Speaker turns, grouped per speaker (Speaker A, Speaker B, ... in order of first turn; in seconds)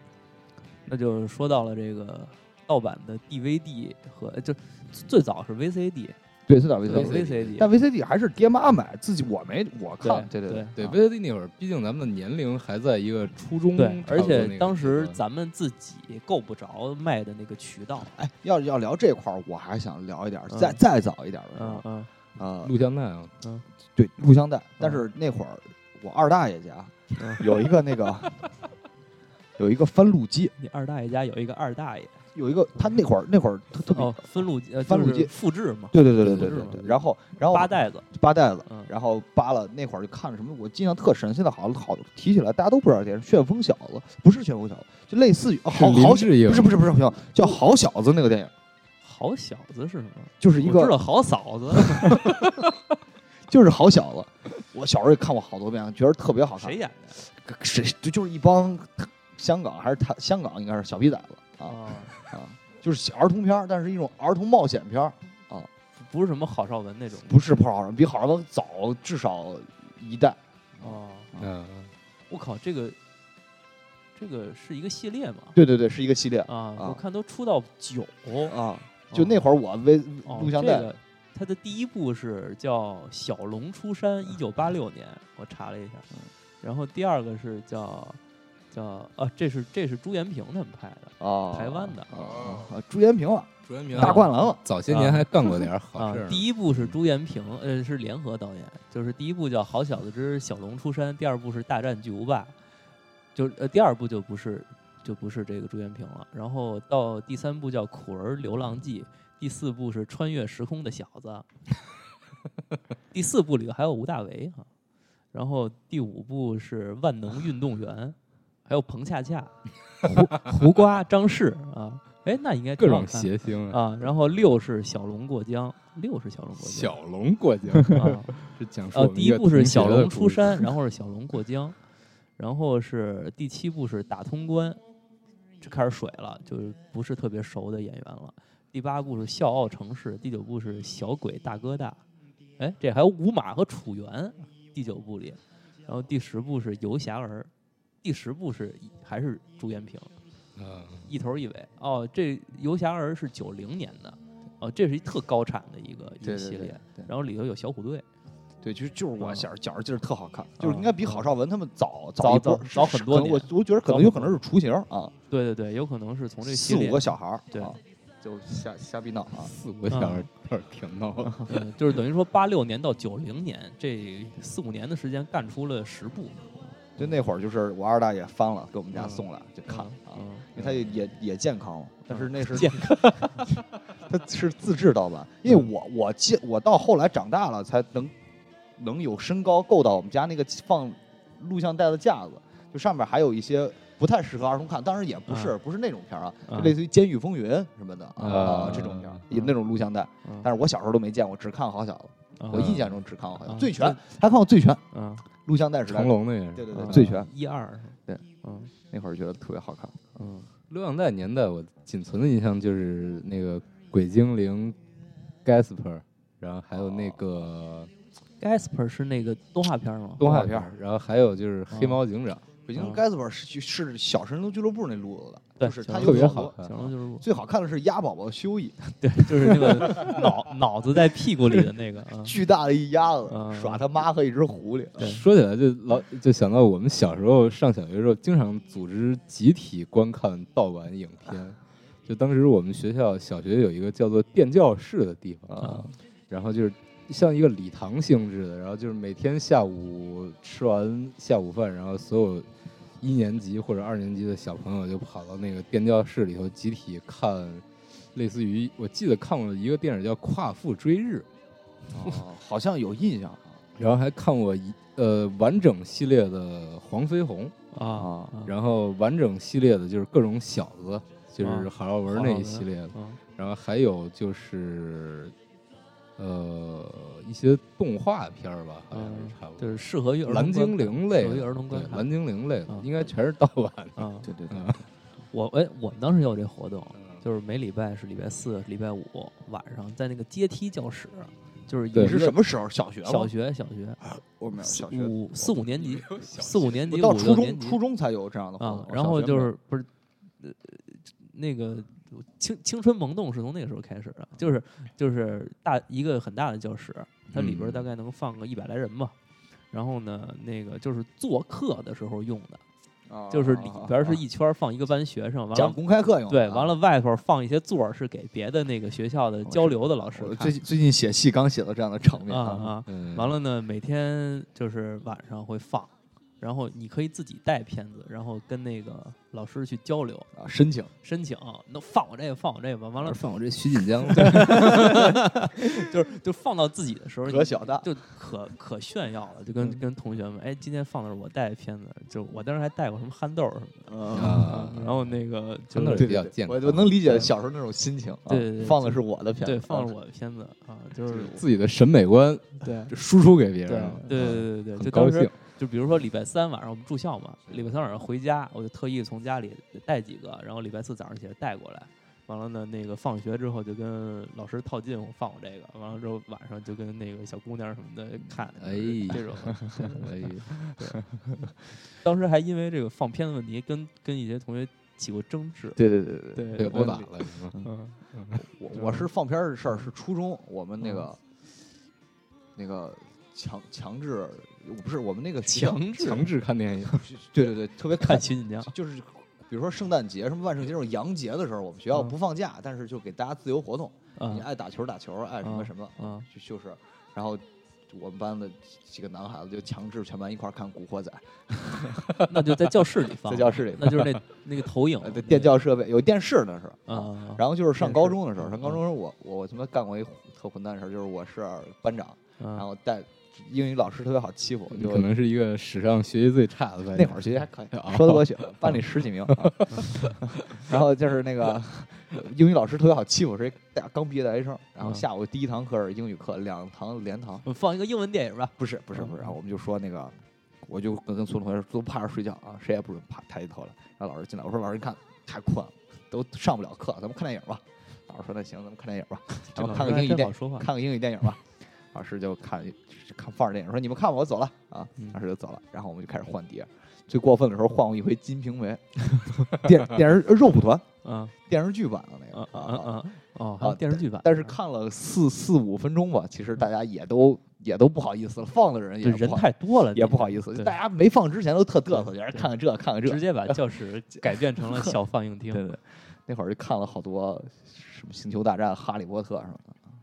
Speaker A: 0.9-6.2, 6.9-7.7, 10.0-10.8, 13.8-18.1, 20.5-20.8, 21.6-22.1, 27.2-27.4, 30.6-32.2, 33.9-38.0, 49.0-52.2, 56.6-57.0, 61.7-62.1, 66.0-67.3, 70.8-71.3, 72.3-73.0, 74.2-75.6, 76.5-78.5, 79.1-79.4, 80.3-86.0, 86.6-88.2, 88.7-92.5, 94.0-94.4, 94.9-102.5, 103.3-111.5, 113.1-114.7, 115.3-127.0, 127.9-128.4, 128.9-131.8, 132.4-134.8, 135.6-142.0, 142.6-147.5, 148.0-150.1, 151.1-158.1, 159.2-159.5, 160.6-161.3, 162.2-164.4, 165.3-167.7, 169.9-170.3, 171.4-176.4, 178.9-180.5, 182.1-183.3, 195.3-195.6, 196.5-196.8, 198.4-199.6, 200.2-200.5, 202.4-202.9, 203.4-204.1, 204.9-205.2, 206.7-208.7, 210.2-210.5, 218.4-220.4, 221.7-222.0, 222.8-223.0, 225.6-227.2, 229.0-232.4, 233.3-233.8, 245.6-245.9, 267.7-268.5, 271.4-273.2, 278.9-282.1, 284.0-284.3, 285.3-292.4, 293.1-294.0, 294.6-297.8, 298.6-299.9, 300.4-309.1, 309.7-312.6, 313.3-315.8, 316.3-320.5, 322.3-330.3, 331.0-333.3, 334.1-346.1, 348.3-351.4, 352.6-352.9, 353.7-370.1, 370.8-371.1, 371.9-375.8, 376.4-377.0, 377.6-378.0, 378.7-379.1, 385.5-386.3, 387.9-388.7, 394.2-394.4, 395.4-396.3, 402.2-405.6, 406.9-408.8, 412.4-412.6, 427.4-429.3, 439.6-440.7, 451.0-451.3, 452.3-454.6, 459.0-460.8, 461.9-462.5, 463.0-465.6
Speaker B: 6.5-11.0, 18.1-21.9, 22.4-22.8, 24.0-28.3, 29.6-30.5, 32.3-35.3, 35.9-48.5, 50.4-51.0, 51.9-52.6, 53.5-65.7, 67.3-71.5, 75.5-77.0, 78.5-80.9, 91.2-94.6, 156.2-157.0, 158.6-165.1, 166.4-169.5, 177.0-188.1, 188.8-204.8, 205.4-207.3, 208.8-210.2, 216.8-217.2, 220.2-220.7, 222.7-226.6, 227.2-228.8, 229.3-230.3, 232.2-235.1, 245.5-245.9, 261.9-263.6, 268.0-268.3, 284.2-284.8, 292.0-293.3, 294.0-295.2, 296.9-299.5, 313.1-314.2, 315.5-316.8, 319.5-322.8, 330.4-330.9, 337.3-337.9, 343.9-344.8, 345.9-349.9, 375.8-377.7, 378.4-381.2, 382.6-386.2, 387.1-404.2, 405.0-415.1, 416.9-427.4, 428.6-450.9, 451.5-453.0, 453.6-463.6, 464.3-464.9, 465.5-469.8
Speaker C: 6.9-7.5, 10.8-15.2, 22.6-23.3, 45.7-46.8, 71.4-71.9, 92.4-92.7, 93.7-96.9, 122.8-124.1, 126.6-130.7, 150.6-151.1, 169.4-171.6, 198.2-199.2, 202.5-203.0, 205.9-207.0, 210.7-214.8, 215.4-217.9, 220.2-222.5, 226.0-226.8, 235.0-252.5, 253.0-261.3, 263.8-267.6, 268.5-275.4, 276.2-284.8, 295.6-297.0, 307.3-307.9, 322.9-323.4, 333.0-335.2, 344.1-345.1, 345.7-346.9, 351.3-355.3, 368.6-370.5, 376.6-377.6, 378.1-378.4, 386.0-386.9, 414.7-420.1